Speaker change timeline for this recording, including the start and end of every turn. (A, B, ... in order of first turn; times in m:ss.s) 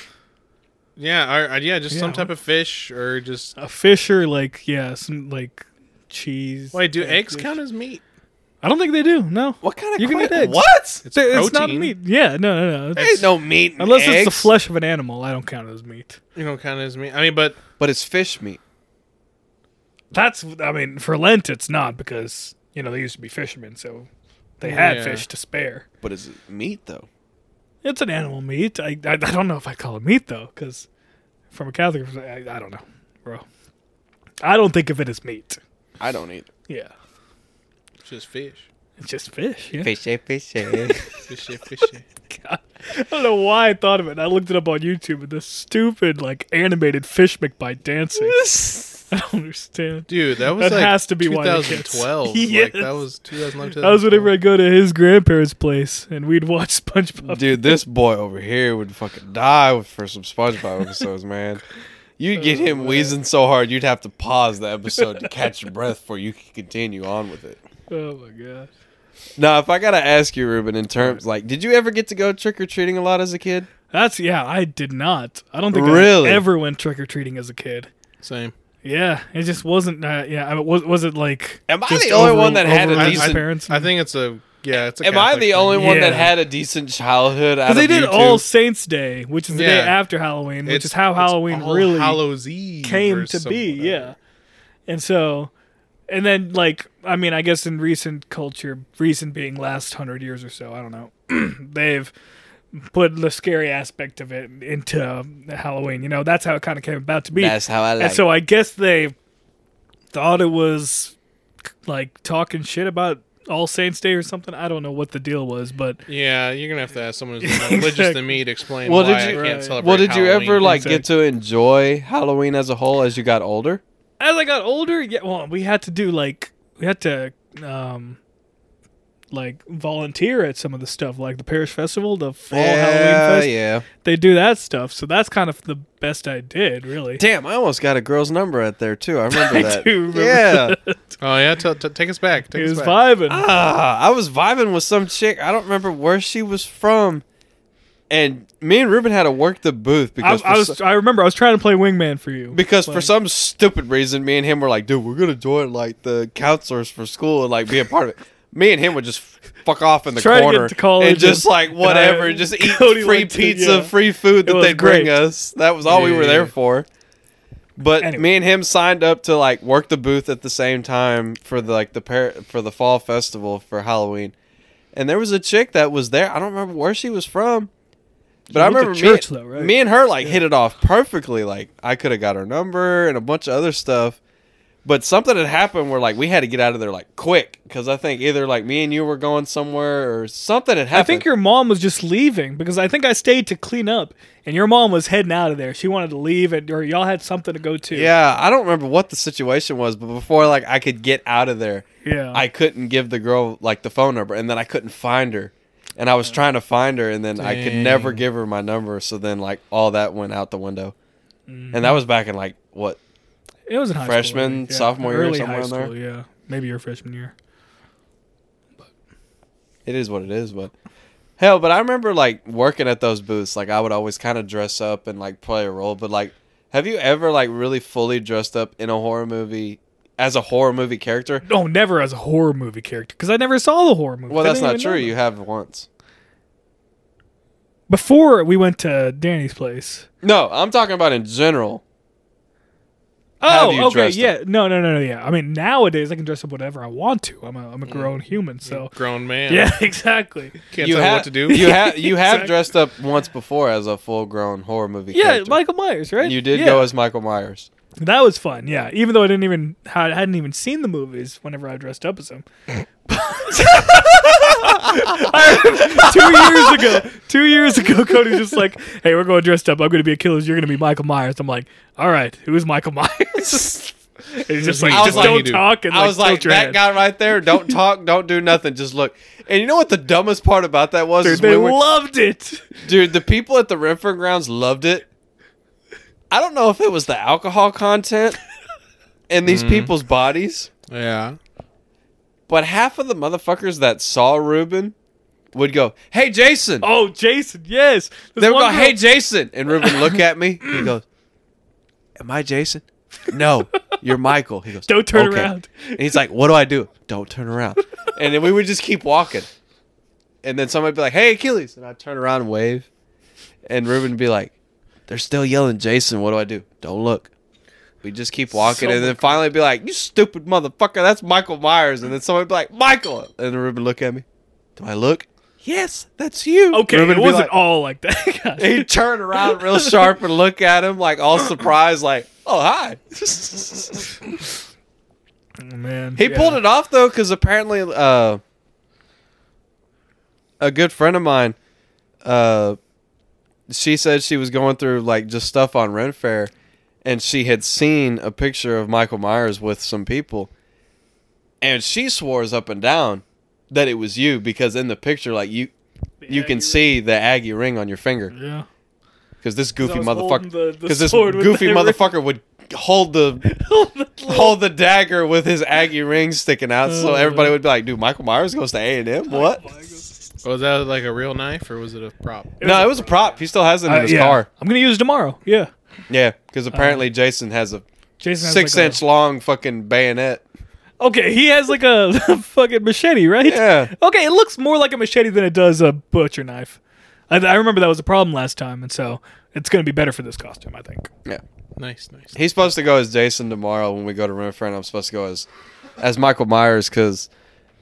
0:01.0-0:03.6 A
0:01.9-0:02.3 B
0:03.6-0:07.6 B
0:06.7-0:08.0 A
0:08.6-0:16.2 B
0:09.6-0:11.0 C
0:11.0-0:11.9 A
0:13.0-0:14.5 C
0:16.4-0:17.6 A
0:17.8-0:18.6 C
0:20.1-0:24.1 B
0:24.6-0:25.8 B
0:24.6-0:25.2 A
0:26.0-0:27.1 C
0:27.8-0:30.8 B
0:31.5-0:33.4 B
0:34.4-0:35.6 B
0:36.0-0:36.5 C
0:38.0-0:38.7 A
0:39.0-0:39.9 B
0:39.8-0:41.0 C
0:40.6-0:41.2 B
0:41.3-0:42.0 A
0:42.3-0:53.0 B
0:48.2-0:49.1 C
0:50.1-0:54.3 A
0:53.8-0:57.8 B
0:57.2-1:01.6 C
1:02.2-1:07.6 C
1:02.4-1:03.1 B
1:05.0-1:05.3 B
1:07.9-1:08.7 B
1:09.4-1:13.7 C
1:13.9-1:17.9 B
1:15.7-1:16.4 C
1:18.2-1:18.5 A
1:18.8-1:23.9 B
1:21.7-1:23.4 C
1:22.1-1:26.2 A
1:25.0-1:28.4 C
1:25.8-1:26.3 B
1:27.6-1:32.2 B
1:29.5-1:30.0 A
1:30.6-1:34.1 A
1:32.8-1:34.1 B
1:34.9-1:35.5 B
1:36.1-1:42.1 B
1:42.7-1:49.2 B
1:47.3-1:48.2 C
1:50.1-1:51.1 B
1:51.8-1:56.0 B
1:56.1-2:00.8 A
1:57.4-1:58.2 B
1:58.8-2:03.8 C
1:59.3-1:59.8 B
2:00.5-2:01.0 B
2:04.2-2:08.2 B
2:09.3-2:13.5 B
2:12.5-2:13.8 C
2:14.0-2:17.2 B
2:17.2-2:20.8 C
2:19.3-2:21.2 B
2:21.2-2:23.0 A
2:22.5-2:23.4 B
2:23.3-2:27.2 C
2:28.1-2:30.8 C
2:30.2-2:33.1 B
2:32.5-2:46.8 C
2:40.1-2:45.2 B
2:45.8-2:46.5 A
2:47.8-2:54.3 C
2:48.0-2:48.3 B
2:54.9-2:57.7 C
2:58.5-3:00.4 B
2:58.5-3:04.2 C
3:04.8-3:11.2 C
3:10.9-3:18.1 B
3:17.9-3:30.9 C
3:22.0-3:22.4 B
3:27.4-3:28.2 A
3:31.5-3:32.0 B
3:31.7-3:33.0 C
3:33.7-3:37.3 B
3:34.0-3:35.9 C
3:39.8-3:40.7 C
3:41.4-3:51.4 C
3:51.4-3:55.1 B
3:54.3-3:55.9 C
3:57.9-4:00.1 B
4:00.2-4:01.8 C
4:03.4-4:08.9 B
4:03.4-4:04.3 C
4:07.8-4:09.7 A
4:09.5-4:10.7 B
4:10.7-4:11.7 A
4:10.8-4:15.6 C
4:11.5-4:12.6 B
4:15.1-4:16.9 B
4:16.2-4:17.7 C
4:18.0-4:22.4 B
4:23.1-4:36.8 B
4:24.5-4:27.0 C
4:34.6-4:35.7 A
4:34.9-4:41.8 C
4:37.4-4:37.7 B
4:41.2-4:42.8 B
4:42.8-4:45.0 C
4:46.3-4:48.4 C
4:49.3-4:50.7 C
4:49.4-4:49.9 A
4:50.9-4:51.4 A
4:52.5-4:54.9 C
4:55.5-4:56.9 C
4:56.8-4:59.0 B
4:58.4-5:01.0 C
4:59.8-5:00.9 B
5:02.2-5:09.5 C
5:04.8-5:06.0 B
5:10.4-5:12.9 C
5:13.7-5:14.5 C
5:15.1-5:17.3 C
5:18.0-5:24.2 C
5:18.6-5:19.4 B
5:24.8-5:27.5 C
5:26.7-5:30.2 B
5:28.6-5:34.2 C
5:35.6-5:36.6 B
5:36.2-5:38.4 C
5:40.6-5:41.6 C
5:42.2-5:42.8 C
5:43.7-5:46.5 C
5:47.0-5:50.5 C
5:51.6-5:55.7 C
5:56.2-5:56.9 B
5:56.3-5:58.3 C
5:58.3-5:58.6 B
5:59.4-6:03.4 C
5:59.8-6:02.1 B
6:03.4-6:04.6 B
6:04.3-6:09.6 C
6:06.8-6:07.6 B
6:09.3-6:10.1 B
6:10.4-6:12.6 A
6:12.6-6:15.7 B
6:12.6-6:14.4 C
6:16.1-6:17.8 C
6:16.7-6:17.0 B
6:18.2-6:19.0 B
6:18.4-6:20.4 C
6:21.0-6:26.8 B
6:23.4-6:23.9 C
6:27.3-6:31.1 B
6:31.8-6:32.4 A
6:32.3-6:35.5 C
6:36.0-6:37.3 C